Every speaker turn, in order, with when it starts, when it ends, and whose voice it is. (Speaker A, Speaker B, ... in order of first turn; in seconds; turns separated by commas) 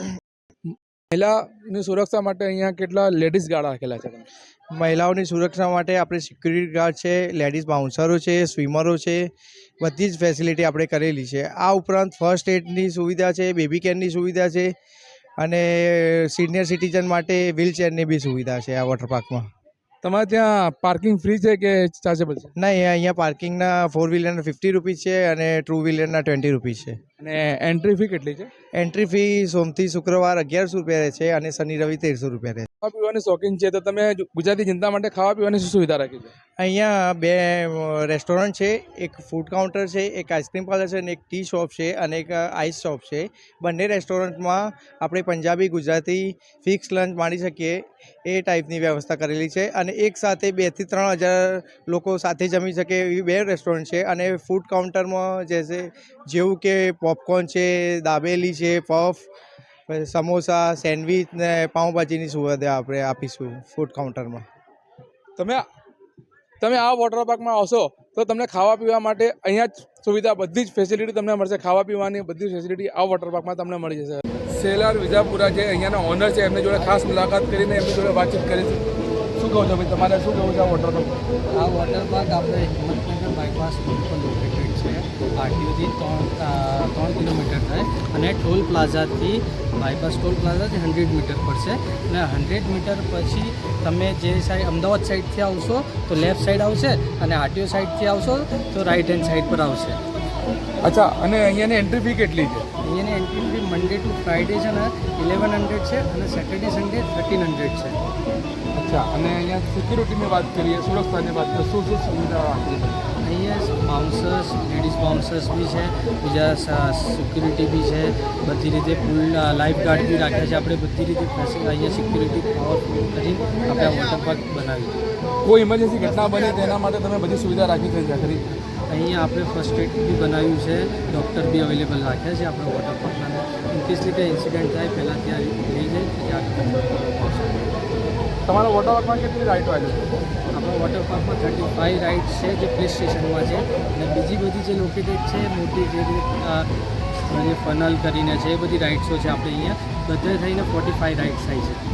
Speaker A: 1.1-4.3, Speaker B: 4.8-9.3, Speaker B: 9.8-14.7, Speaker B: 15.4-19.4, Speaker A: 20.0-22.5, Speaker B: 22.6-27.0, Speaker A: 27.2-28.5, Speaker B: 28.8-32.7, Speaker A: 32.8-36.3, Speaker B: 36.6-59.3, Speaker B: 59.9-64.4, Speaker A: 65.4-65.6, Speaker A: 66.6-78.8, Speaker C: 76.7-77.2, Speaker A: 79.4-81.2, Speaker C: 81.5-100.0, Speaker A: 100.8-102.7, Speaker C: 102.8-108.0, Speaker A: 108.7-113.0, Speaker C: 113.2-125.0, Speaker A: 125.4-128.4, Speaker C: 128.9-137.7, Speaker A: 138.5-140.2, Speaker C: 140.5-151.8